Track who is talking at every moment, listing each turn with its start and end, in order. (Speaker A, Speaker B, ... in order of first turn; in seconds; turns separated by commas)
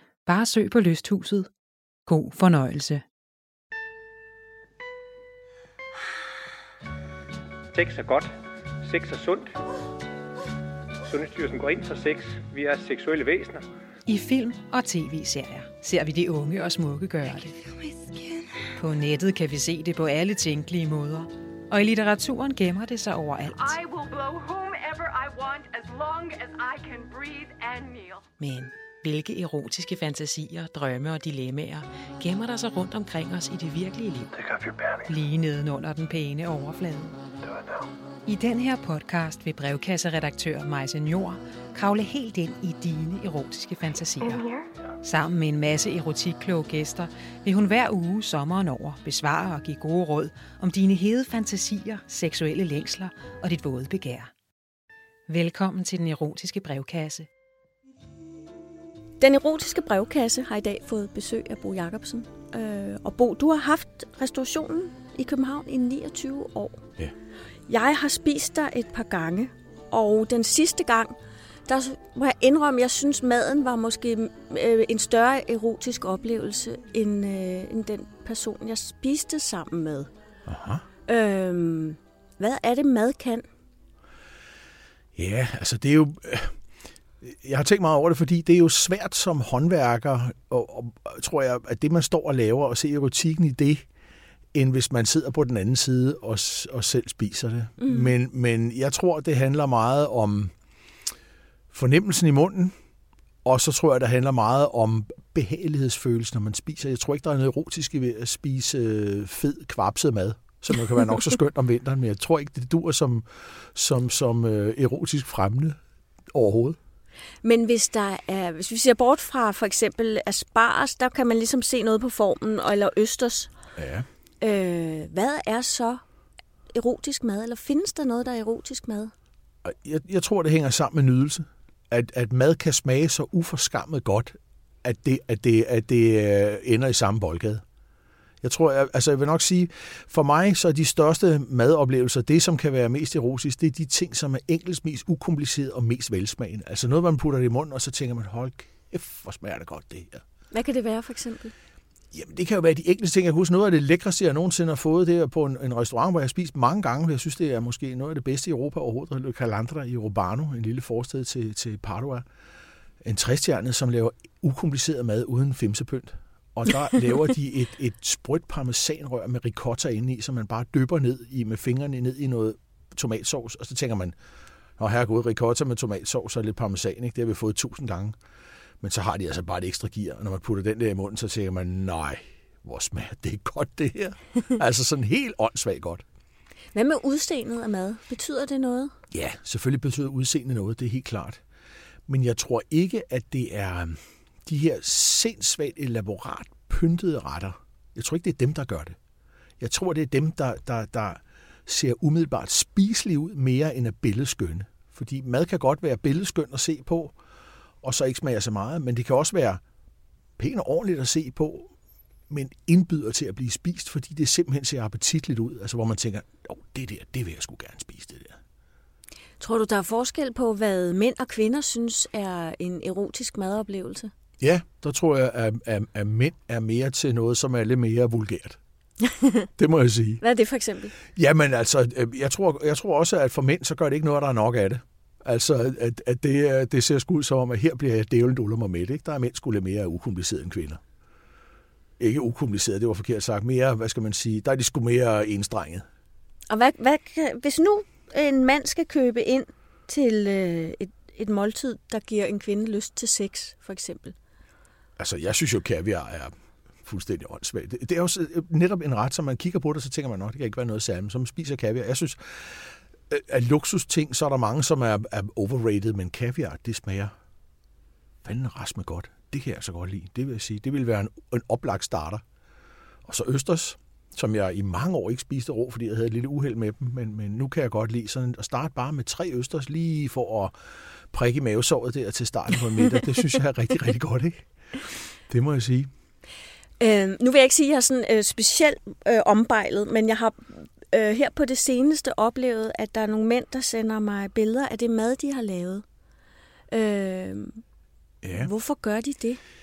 Speaker A: 0.3-1.5, Speaker A: 2.1-3.0, Speaker B: 7.7-9.5, Speaker B: 11.1-13.7, Speaker A: 14.1-17.6, Speaker C: 18.1-18.4, Speaker A: 18.8-23.8, Speaker C: 23.5-28.3, Speaker A: 28.4-34.3, Speaker B: 34.4-35.0, Speaker A: 35.0-37.2, Speaker A: 38.3-44.5, Speaker A: 45.0-54.3, Speaker A: 55.3-57.3, Speaker D: 59.2-66.8, Speaker D: 67.7-71.2, Speaker D: 71.7-80.1, Speaker E: 80.5-80.8, Speaker D: 81.1-83.5, Speaker E: 85.2-86.6, Speaker E: 87.2-93.8, Speaker E: 94.5-100.5, Speaker D: 97.8-98.1, Speaker E: 101.7-102.8, Speaker E: 103.5-115.8, Speaker E: 116.3-116.8, Speaker D: 117.4-123.5, Speaker E: 123.8-124.1, Speaker D: 124.4-126.0, Speaker D: 126.7-129.1, Speaker E: 129.6-137.6, Speaker E: 138.4-150.2, Speaker D: 150.5-151.5, Speaker E: 152.1-162.2, Speaker E: 163.0-174.2, Speaker E: 174.8-178.2, Speaker E: 178.8-186.0, Speaker D: 186.8-188.9, Speaker E: 189.1-191.4, Speaker E: 192.1-199.0, Speaker E: 199.6-207.2, Speaker E: 207.8-209.6, Speaker E: 210.4-211.7, Speaker E: 212.3-218.4, Speaker D: 219.4-224.1, Speaker E: 224.4-228.6, Speaker E: 229.6-230.2, Speaker D: 230.2-230.9, Speaker E: 231.2-240.8, Speaker E: 242.0-245.8, Speaker D: 246.5-254.2, Speaker E: 255.0-267.1, Speaker E: 268.2-272.2, Speaker E: 273.1-280.5, Speaker E: 281.1-285.9, Speaker D: 286.8-295.8, Speaker D: 296.7-297.6, Speaker E: 298.2-298.5, Speaker D: 298.4-299.4